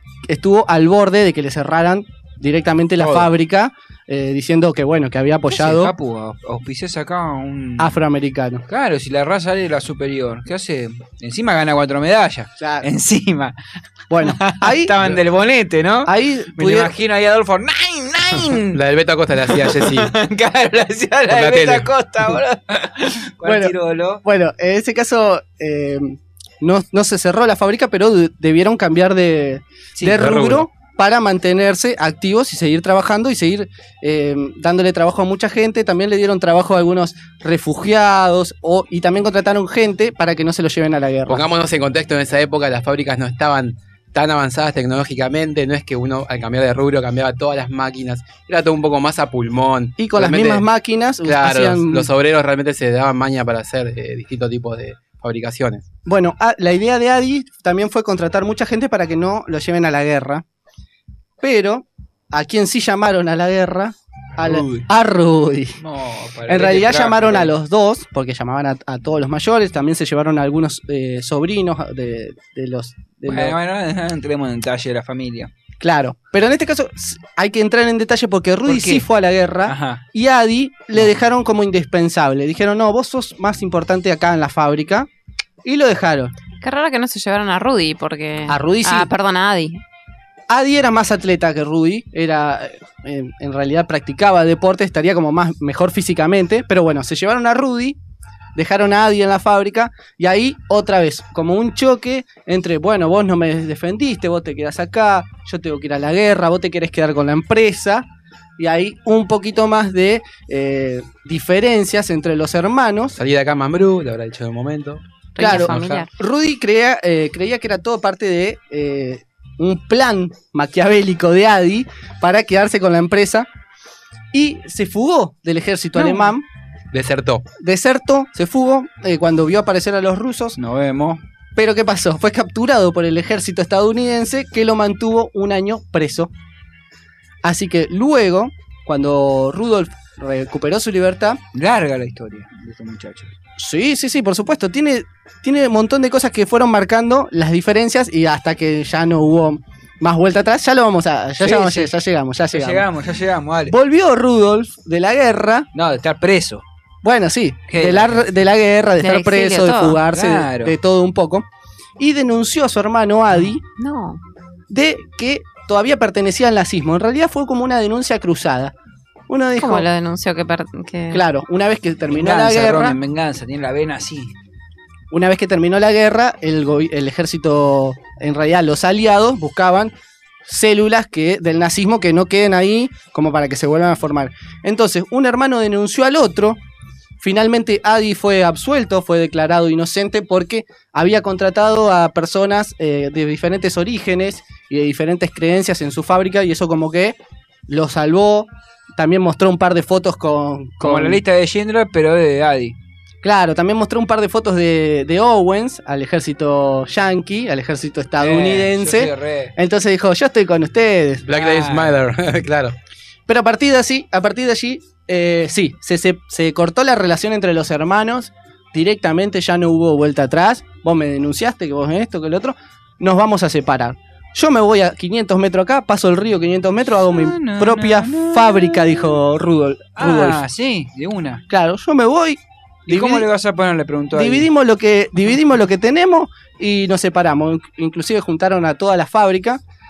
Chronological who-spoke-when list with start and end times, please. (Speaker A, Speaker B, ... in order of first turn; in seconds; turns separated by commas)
Speaker A: 0.3-5.9, Speaker B: 3.0-3.3, Speaker B: 5.5-8.0, Speaker A: 7.8-8.6, Speaker B: 8.7-13.6, Speaker A: 12.6-12.9, Speaker A: 14.1-14.9, Speaker B: 14.1-18.8, Speaker A: 16.1-16.9, Speaker C: 18.5-20.1, Speaker B: 19.4-24.2, Speaker C: 21.3-21.9, Speaker A: 23.4-41.4, Speaker B: 29.9-30.3, Speaker C: 30.1-30.7, Speaker C: 41.3-50.6, Speaker A: 50.0-52.1, Speaker C: 51.2-55.8, Speaker A: 56.0-60.4, Speaker A: 61.4-65.8, Speaker B: 64.3-64.9, Speaker B: 65.8-67.5, Speaker A: 66.5-73.6, Speaker B: 73.2-75.5, Speaker A: 75.8-85.1, Speaker B: 78.7-79.1, Speaker B: 79.6-80.0, Speaker A: 85.6-86.3, Speaker D: 86.6-89.8, Speaker A: 88.5-89.1, Speaker A: 90.5-98.0, Speaker A: 98.5-108.1, Speaker A: 108.6-113.2, Speaker C: 113.2-116.0, Speaker D: 115.3-116.1, Speaker A: 115.4-123.5, Speaker A: 124.3-126.4, Speaker B: 125.9-126.3, Speaker C: 126.9-127.5, Speaker A: 127.6-130.6, Speaker B: 130.5-131.2, Speaker A: 131.6-136.3, Speaker A: 137.4-141.4, Speaker B: 141.5-143.3, Speaker A: 143.6-152.9, Speaker B: 151.4-152.0, Speaker B: 152.5-153.8, Speaker A: 153.7-155.7, Speaker B: 155.7-156.6, Speaker A: 157.0-161.4, Speaker B: 157.7-158.2, Speaker D: 159.0-160.0, Speaker B: 160.1-160.8, Speaker A: 162.0-163.6, Speaker D: 163.8-164.2, Speaker A: 164.7-168.7, Speaker A: 169.3-169.9, Speaker D: 169.6-171.2, Speaker A: 171.1-173.0, Speaker B: 172.1-174.3, Speaker A: 175.1-179.9, Speaker A: 180.4-186.6, Speaker A: 187.2-197.2, Speaker A: 197.7-201.2, Speaker B: 200.8-202.8, Speaker A: 203.2-211.2, Speaker B: 208.2-209.6, Speaker C: 211.2-212.8, Speaker B: 211.3-212.0, Speaker A: 213.3-230.4, Speaker B: 227.1-229.2, Speaker B: 230.0-231.4, Speaker A: 231.5-233.3, Speaker B: 232.8-234.5, Speaker A: 234.1-239.6